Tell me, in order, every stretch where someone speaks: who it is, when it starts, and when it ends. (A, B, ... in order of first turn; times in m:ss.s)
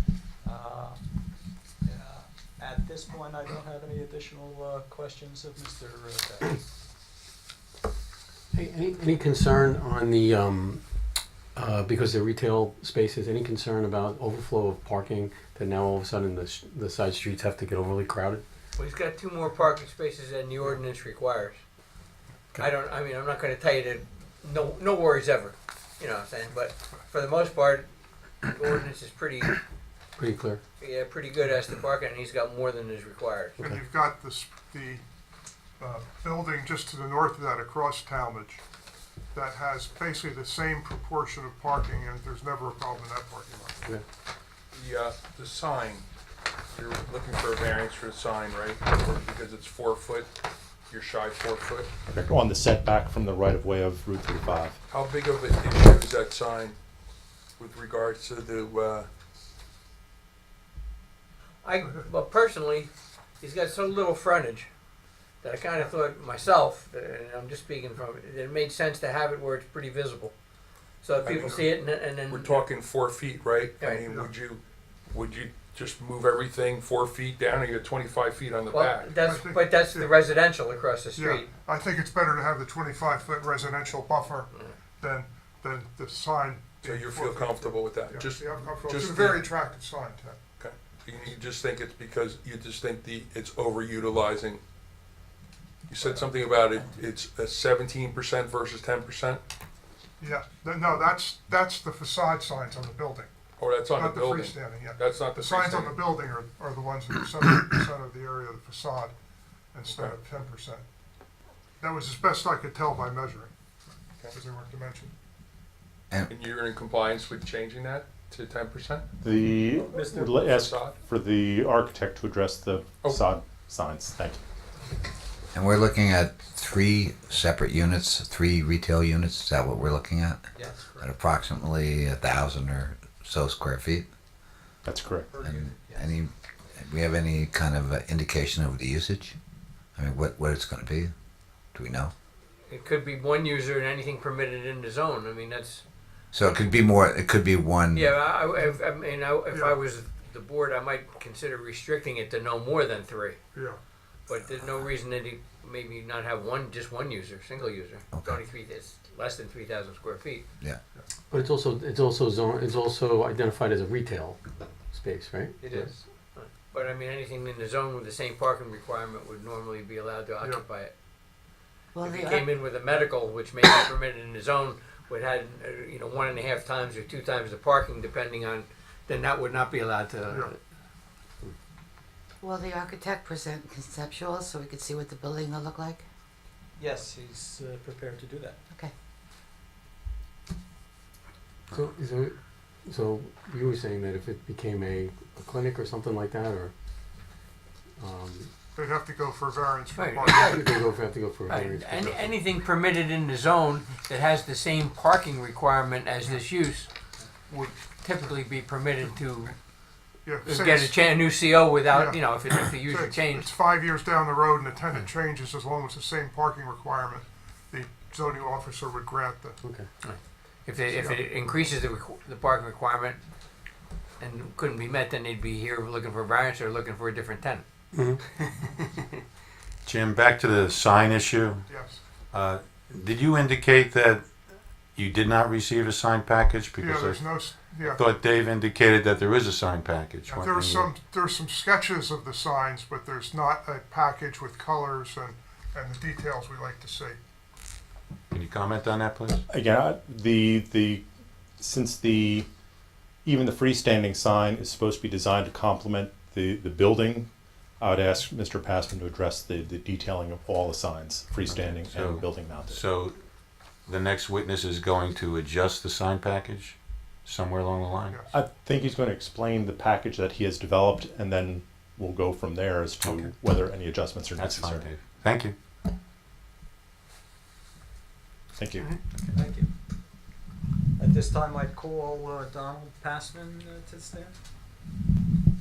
0:00.4-0:01.1 A
0:01.8-0:06.6 A
0:08.5-0:10.8 B
0:11.6-0:18.4 B
0:18.8-0:21.6 C
0:22.6-0:27.9 C
0:28.4-0:29.6 C
0:30.2-0:30.6 B
0:30.8-0:33.6 C
0:33.6-0:35.0 D
0:35.8-0:38.6 D
0:39.3-0:43.8 D
0:44.7-0:46.1 E
0:46.7-0:50.3 E
0:50.9-0:51.9 E
0:52.1-0:54.8 F
0:54.9-0:56.8 E
0:57.6-0:59.1 E
1:01.6-1:02.9 C
1:03.4-1:04.7 C
1:05.4-1:10.3 C
1:11.0-1:12.6 C
1:11.2-1:11.7 E
1:12.3-1:19.2 E
1:13.8-1:14.1 C
1:18.7-1:21.5 C
1:19.2-1:20.1 D
1:21.2-1:30.4 D
1:26.8-1:29.5 E
1:30.6-1:34.6 E
1:35.9-1:39.4 E
1:36.0-1:36.3 D
1:40.2-1:43.3 D
1:43.6-1:46.1 E
1:44.0-1:49.1 D
1:49.7-1:50.8 D
1:49.9-1:50.2 E
1:51.8-1:53.5 D
1:54.3-1:55.1 D
1:56.3-1:59.0 E
1:59.2-2:04.4 F
1:59.9-2:00.4 A
2:00.3-2:01.0 E
2:05.5-2:14.0 G
2:10.5-2:11.1 A
2:14.8-2:15.3 F
2:15.3-2:16.2 A
2:15.4-2:19.4 G
2:19.9-2:21.1 G
2:21.7-2:22.1 G
2:22.7-2:25.8 C
2:26.3-2:28.1 G
2:27.9-2:33.4 C
2:29.5-2:29.8 D
2:33.5-2:33.8 D
2:34.3-2:40.4 C
2:38.1-2:38.4 G
2:41.3-2:45.9 B
2:45.6-2:46.0 A
2:46.4-2:50.9 C
2:51.9-2:52.5 H
2:52.0-3:00.6 C
3:02.4-3:06.0 H
3:06.8-3:08.6 A
3:11.7-3:16.7 B
3:18.0-3:18.5 B
3:18.8-3:20.7 D
3:19.9-3:20.6 C
3:20.2-3:22.3 B
3:21.5-3:26.9 C
3:27.5-3:29.6 C
3:30.2-3:30.9 D
3:30.4-3:33.5 C
3:31.9-3:39.6 D
3:39.6-3:39.9 B
3:40.0-3:43.2 C
3:40.9-3:41.2 D
3:44.2-3:47.6 C
3:47.9-3:48.2 B
3:49.8-3:51.7 I
3:51.7-3:52.0 D
3:52.3-3:54.2 I
3:54.9-4:00.9 I
3:56.8-3:58.0 D
4:00.3-4:07.2 D
4:08.3-4:09.4 I
4:09.5-4:11.0 F
4:11.6-4:12.5 F
4:13.2-4:22.8 F
4:21.5-4:23.2 I
4:23.9-4:28.2 I
4:28.3-4:34.9 F
4:33.0-4:33.3 I
4:34.4-4:35.5 I
4:38.6-4:38.9 F
4:39.3-4:39.7 A
4:41.0-4:44.4 A